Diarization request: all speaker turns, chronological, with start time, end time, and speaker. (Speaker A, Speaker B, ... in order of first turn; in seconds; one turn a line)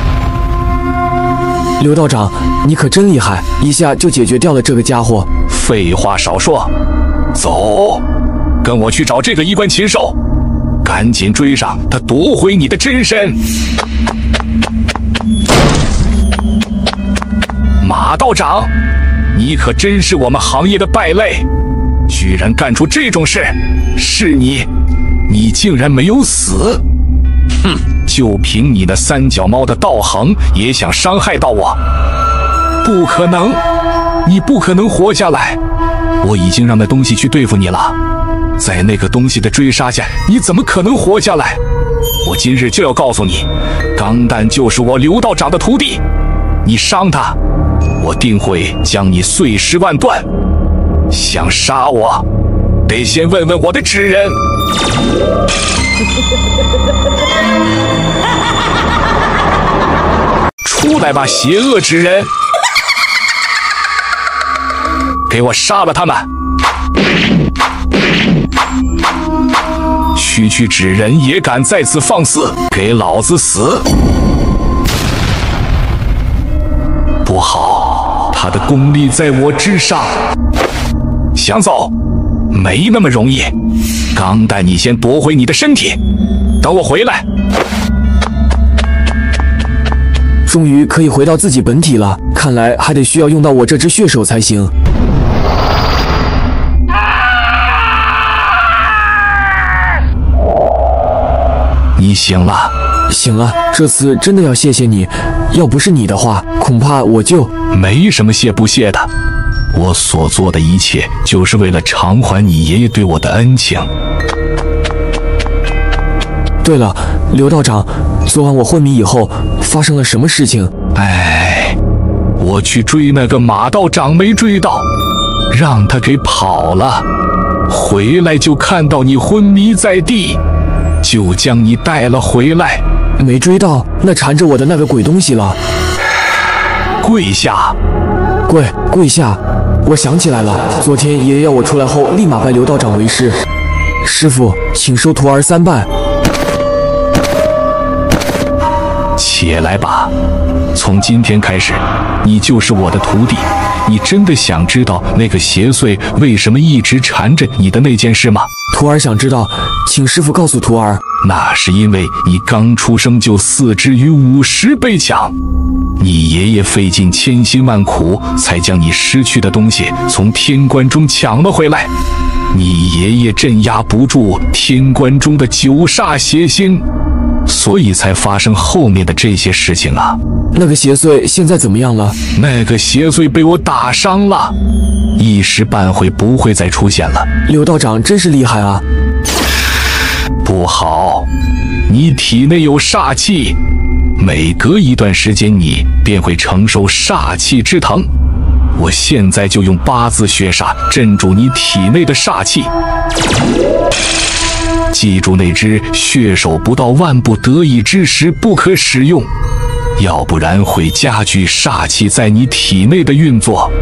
Speaker A: 1.8-5.3
Speaker B: 5.5-6.7
Speaker B: 7.3-8.0
Speaker B: 8.6-10.2
Speaker B: 10.8-13.4
Speaker B: 17.8-18.7
Speaker B: 19.3-21.4
Speaker B: 22.1-24.7
Speaker B: 25.3-26.8
Speaker B: 28.1-31.8
Speaker B: 32.8-33.6
Speaker B: 34.2-35.6
Speaker B: 36.2-38.0
Speaker B: 38.6-41.6
Speaker B: 42.2-46.0
Speaker B: 46.6-47.4
Speaker B: 48.0-50.2
Speaker B: 51.1-52.2
Speaker B: 52.9-54.4
Speaker B: 60.6-62.3
Speaker B: 65.3-66.2
Speaker B: 70.1-73.8
Speaker B: 77.2-80.2
Speaker B: 81.3-81.9
Speaker B: 82.5-83.5
Speaker B: 84.1-86.0
Speaker B: 86.6-87.2
Speaker A: 90.5-94.7
Speaker B: 102.0-102.7
Speaker A: 103.1-107.5
Speaker B: 107.7-109.1
Speaker B: 109.7-113.9
Speaker A: 116.6-120.7
Speaker B: 120.9-121.8
Speaker B: 122.4-124.8
Speaker B: 125.5-127.0
Speaker B: 127.7-130.4
Speaker B: 131.0-132.8
Speaker A: 133.2-135.6
Speaker B: 137.0-137.8
Speaker A: 138.5-143.3
Speaker A: 144.0-145.9
Speaker B: 149.2-150.1
Speaker B: 150.7-158.5
Speaker A: 158.7-161.0
Speaker B: 161.2-165.3
Speaker B: 166.0-171.9
Speaker B: 172.5-176.8
Speaker B: 177.5-180.2
Speaker A: 180.5-182.2
Speaker B: 182.3-184.5
Speaker B: 185.2-187.3
Speaker A: 187.4-188.8
Speaker B: 190.4-191.3
Speaker B: 191.9-193.6
Speaker B: 194.2-198.1
Speaker B: 198.8-202.7
Speaker B: 204.9-209.3
Speaker B: 210.0-213.7